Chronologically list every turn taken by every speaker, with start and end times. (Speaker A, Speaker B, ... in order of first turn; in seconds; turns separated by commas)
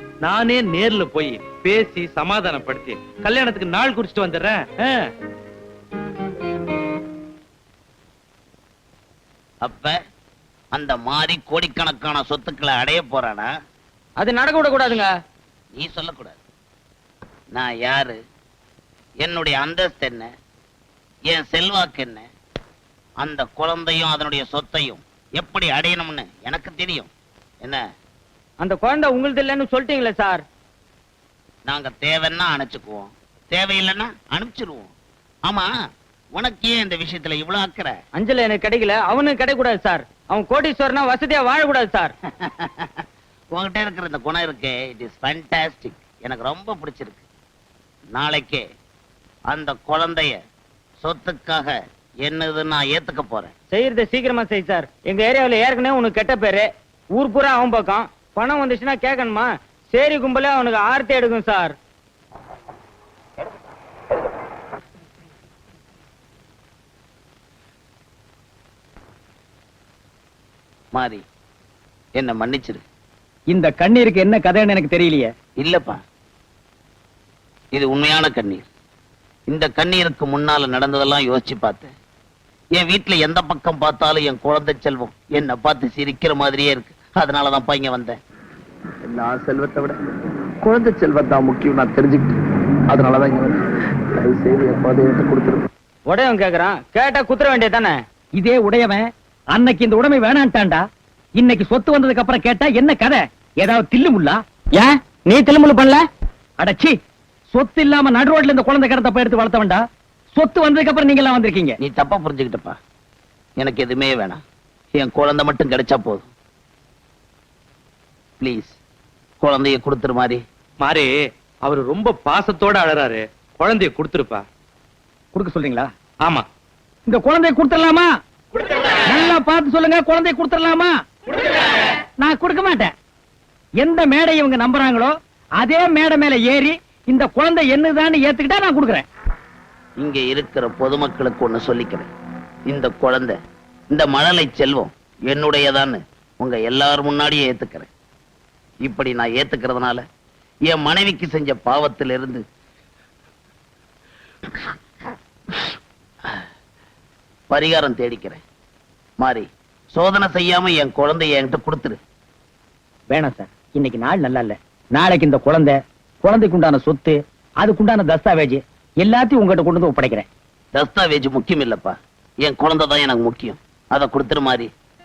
Speaker A: 0.2-5.1, Speaker B: 9.6-10.0, Speaker B: 10.7-13.5, Speaker C: 14.2-15.1, Speaker B: 15.8-16.4, Speaker B: 17.5-18.2, Speaker B: 19.2-20.3, Speaker B: 21.3-22.3, Speaker B: 23.2-27.1, Speaker C: 28.6-30.4, Speaker B: 31.7-34.9, Speaker B: 36.4-37.9, Speaker C: 38.2-42.1, Speaker B: 42.4-47.2, Speaker B: 48.1-48.6, Speaker B: 49.5-50.4, Speaker B: 51.0-53.5, Speaker C: 53.7-61.7, Speaker B: 70.9-71.2, Speaker B: 72.2-72.8, Speaker D: 73.5-75.3, Speaker B: 75.6-76.0, Speaker B: 77.7-78.7, Speaker B: 79.5-81.9, Speaker B: 82.8-88.2, Speaker E: 89.0-90.0, Speaker E: 90.6-92.3, Speaker E: 92.9-93.7, Speaker E: 94.2-95.7, Speaker C: 96.1-98.0, Speaker D: 98.4-100.8, Speaker D: 101.4-104.4, Speaker C: 104.8-106.0, Speaker D: 106.6-107.0, Speaker D: 107.5-109.8, Speaker D: 110.3-111.8, Speaker B: 111.8-112.8, Speaker B: 113.6-114.4, Speaker B: 115.0-116.2, Speaker B: 118.4-118.8, Speaker B: 119.4-120.4, Speaker A: 120.8-121.1, Speaker A: 121.7-124.5, Speaker D: 125.3-125.9, Speaker D: 127.1-128.1, Speaker D: 129.1-131.0, Speaker D: 132.2-132.9, Speaker D: 133.8-139.1, Speaker B: 140.0-142.1, Speaker B: 142.7-143.4, Speaker B: 143.9-147.9, Speaker B: 148.8-150.0, Speaker B: 150.7-152.4, Speaker B: 157.5-158.4, Speaker B: 159.2-162.0, Speaker D: 163.1-170.3, Speaker B: 170.7-174.7